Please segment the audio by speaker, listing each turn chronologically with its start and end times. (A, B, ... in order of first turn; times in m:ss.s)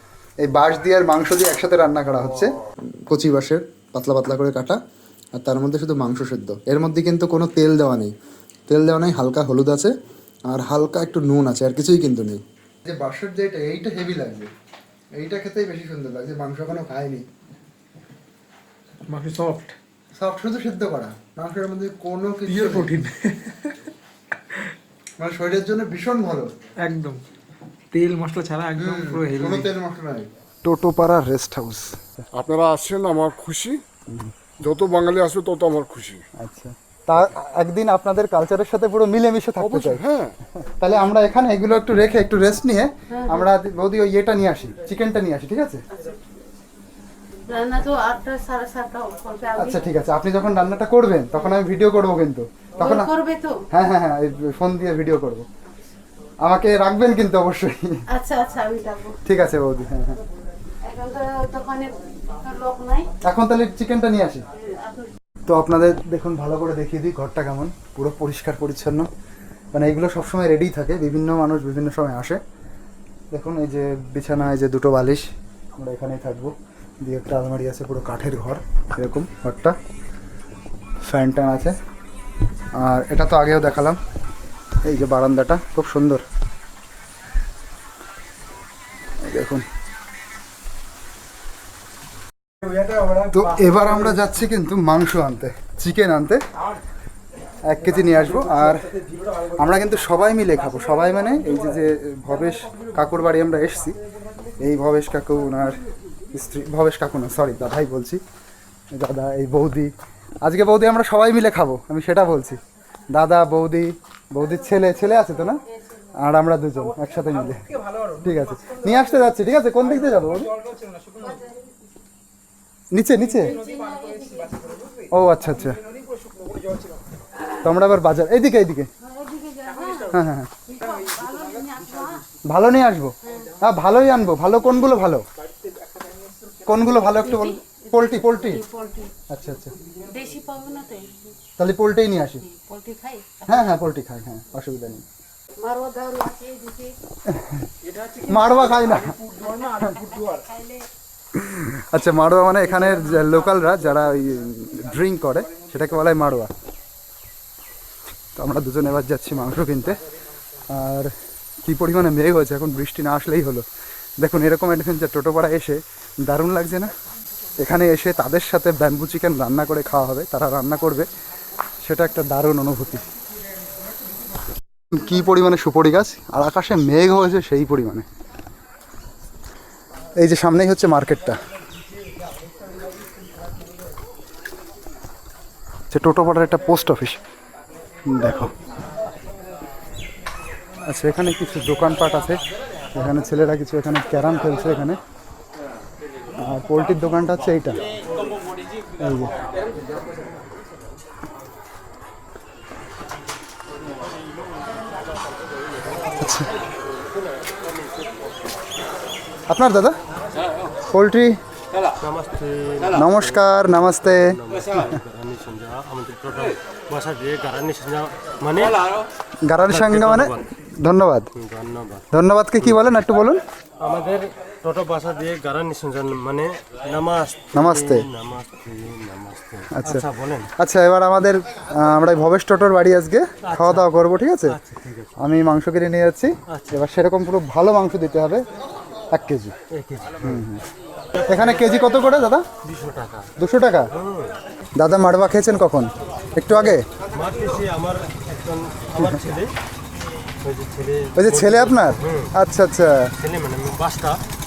0:00.4-0:04.8 A
0:05.4-0:08.1 A
0:08.7-0:09.9 A
0:10.5-0:14.5 A
0:15.2-0:17.2 A
0:19.1-0:19.7 B
0:20.2-0:22.9 A
0:22.5-0:23.9 B
0:25.2-0:26.5 A
0:26.8-0:27.2 B
0:27.9-0:29.7 B
0:28.8-0:32.2 A
0:32.3-0:33.8 C
0:34.6-0:36.2 C
0:36.4-0:40.0 A
0:39.6-0:40.3 C
0:40.7-0:45.8 A
0:43.1-0:43.5 D
0:47.5-0:49.8 D
0:49.6-0:53.1 A
0:52.8-0:53.6 D
0:53.7-0:55.4 A
0:56.4-0:58.0 A
0:58.1-0:59.2 D
0:59.2-1:00.2 A
1:00.8-1:03.1 D
1:03.2-1:04.4 A
1:04.5-1:05.1 D
1:05.5-1:09.1 A
1:09.7-1:12.4 A
1:13.3-1:19.8 A
1:21.0-1:21.8 A
1:22.8-1:24.0 A
1:24.8-1:26.2 A
1:29.2-1:29.6 A
1:32.6-1:34.3 B
1:33.3-1:36.4 A
1:36.6-1:36.8 B
1:37.6-1:38.9 A
1:37.8-1:43.4 B
1:39.6-1:44.0 A
1:44.1-1:44.5 B
1:44.6-1:45.8 A
1:46.3-1:48.2 A
1:48.9-1:49.9 A
1:50.4-1:52.6 A
1:53.1-1:55.6 A
1:56.1-1:57.6 A
1:56.8-2:01.5 B
1:58.2-2:00.5 A
2:01.2-2:01.6 D
2:02.9-2:03.5 A
2:03.2-2:07.0 B
2:03.4-2:04.7 D
2:05.1-2:05.8 A
2:07.6-2:08.9 A
2:09.0-2:10.2 D
2:09.7-2:12.2 B
2:10.1-2:10.5 A
2:10.7-2:12.2 D
2:12.5-2:15.2 A
2:13.2-2:13.5 D
2:13.3-2:13.6 B
2:15.4-2:17.1 B
2:16.7-2:18.6 A
2:17.2-2:19.1 D
2:19.3-2:19.7 A
2:20.0-2:21.3 D
2:21.6-2:22.4 A
2:22.4-2:23.7 D
2:23.5-2:25.0 A
2:25.6-2:27.0 D
2:27.3-2:27.7 A
2:27.8-2:30.5 B
2:28.3-2:29.2 A
2:30.5-2:30.8 D
2:31.3-2:36.5 A
2:32.6-2:34.2 B
2:38.4-2:40.0 A
2:40.7-2:41.1 A
2:41.6-2:43.6 A
2:44.2-2:46.9 A
2:47.6-2:51.1 A
2:51.8-2:53.0 A
2:54.9-2:58.0 A
3:00.2-3:01.4 A
3:05.9-3:07.2 A
3:08.1-3:08.5 A
3:10.9-3:12.4 A
3:12.9-3:15.0 A
3:16.4-3:17.8 A
3:19.0-3:19.3 A
3:26.2-3:26.5 A
3:29.5-3:30.0 A
3:30.9-3:31.4 A
3:32.0-3:38.9 E
3:32.9-3:34.3 A
3:39.5-3:41.3 A
3:39.7-3:40.5 E
3:41.3-3:42.0 E
3:42.1-3:43.4 A
3:43.8-3:50.5 E
3:47.5-3:48.0 A
3:49.7-3:50.0 A
3:50.6-3:54.6 A
3:53.5-3:55.1 E
3:55.2-3:58.4 A
3:56.5-3:56.7 E
3:59.1-3:59.6 A
3:59.7-4:00.4 E
4:00.2-4:00.6 A
4:01.1-4:01.9 E
4:01.3-4:02.4 A
4:02.6-4:03.3 E
4:03.4-4:03.9 A
4:03.9-4:04.4 E
4:04.8-4:06.8 A
4:07.1-4:09.5 E
4:10.4-4:12.3 E
4:11.2-4:13.1 A
4:13.2-4:14.2 E